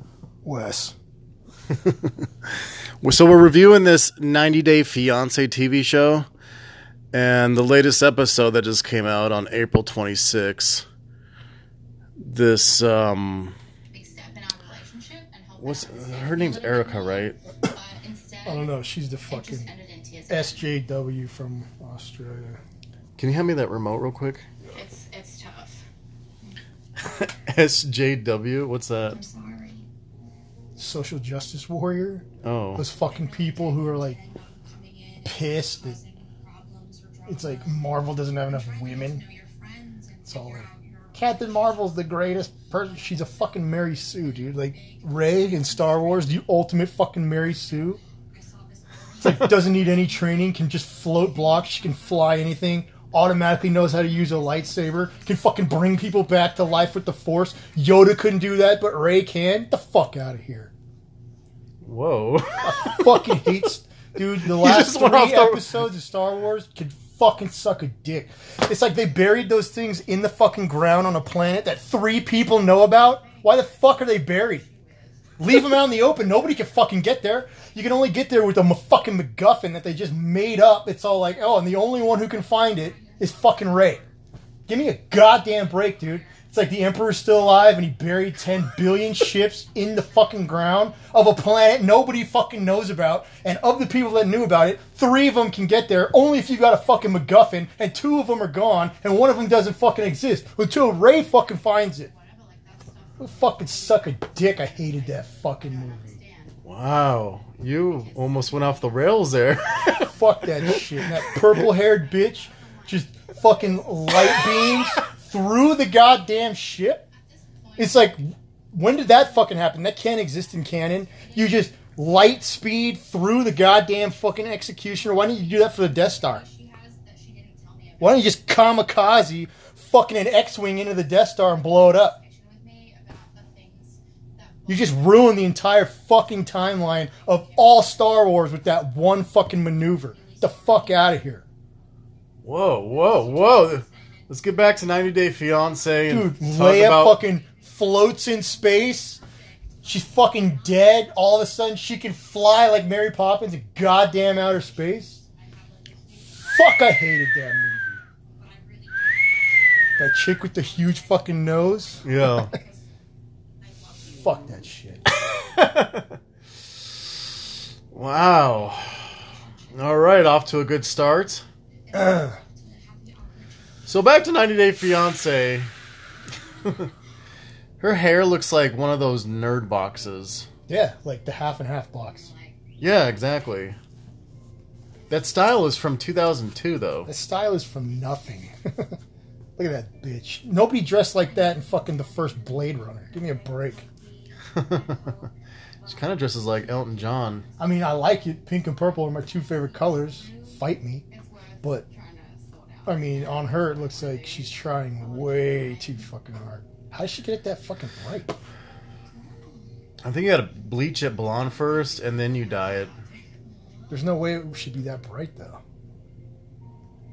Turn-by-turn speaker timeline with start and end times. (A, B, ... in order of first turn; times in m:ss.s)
0:00.4-0:01.0 A
0:01.8-0:06.3 B
0:07.1-0:10.8 B
0:12.2-0:13.6 B
0:13.9-0:18.7 C
0:15.6-0:17.4 B
0:18.4-0:19.7 A
0:19.3-0:20.6 C
0:20.3-0:22.6 A
0:23.2-0:24.5 B
0:24.7-0:25.8 C
0:27.0-0:29.2 B
0:29.1-0:29.8 C
0:30.8-0:34.2 A
0:32.4-0:32.9 B
0:33.0-0:37.9 C
0:35.2-0:36.0 A
0:37.3-0:39.2 A
0:38.6-0:41.4 C
0:40.3-0:48.0 A
0:48.3-0:49.5 C
0:49.2-1:00.7 A
1:01.8-1:03.5 B
1:02.6-1:14.6 A
1:04.4-1:05.9 B
1:13.2-1:15.3 C
1:15.4-1:24.0 A
1:24.7-1:42.1 A
1:42.1-1:43.7 C
1:43.2-1:46.2 A
1:46.1-1:46.6 C
1:46.6-1:51.4 B
1:50.0-1:57.0 A
1:57.3-1:57.8 C
1:57.8-2:06.4 A
2:06.1-2:08.4 C
2:08.0-2:12.2 A
2:12.2-2:14.8 C
2:14.7-2:21.4 A
2:20.2-2:20.8 C
2:22.4-2:27.2 B
2:23.5-2:23.9 C
2:26.1-2:29.2 A
2:29.8-2:35.2 A
2:35.5-2:36.3 C
2:36.4-2:38.0 A
2:38.4-2:39.3 C
2:40.0-2:42.6 A
2:42.0-2:42.5 B
2:42.5-2:42.8 C
2:44.1-2:45.0 A
2:45.1-2:46.2 B
2:47.9-2:51.4 B
2:51.9-2:53.8 C
2:51.9-2:52.4 A
2:53.9-2:55.7 B
2:56.6-2:56.9 B
2:57.8-3:00.5 B
3:00.7-3:02.3 A
3:02.1-3:02.6 C
3:02.8-3:03.8 B
3:05.1-3:07.1 B
3:07.1-3:09.0 A
3:09.6-3:13.9 A
3:13.8-3:15.3 C
3:14.5-3:15.0 B
3:15.8-3:17.5 B
3:17.6-3:21.1 A
3:20.1-3:20.5 C
3:21.1-3:25.7 C
3:22.9-3:28.4 A
3:30.0-3:32.9 B
3:33.9-3:35.6 A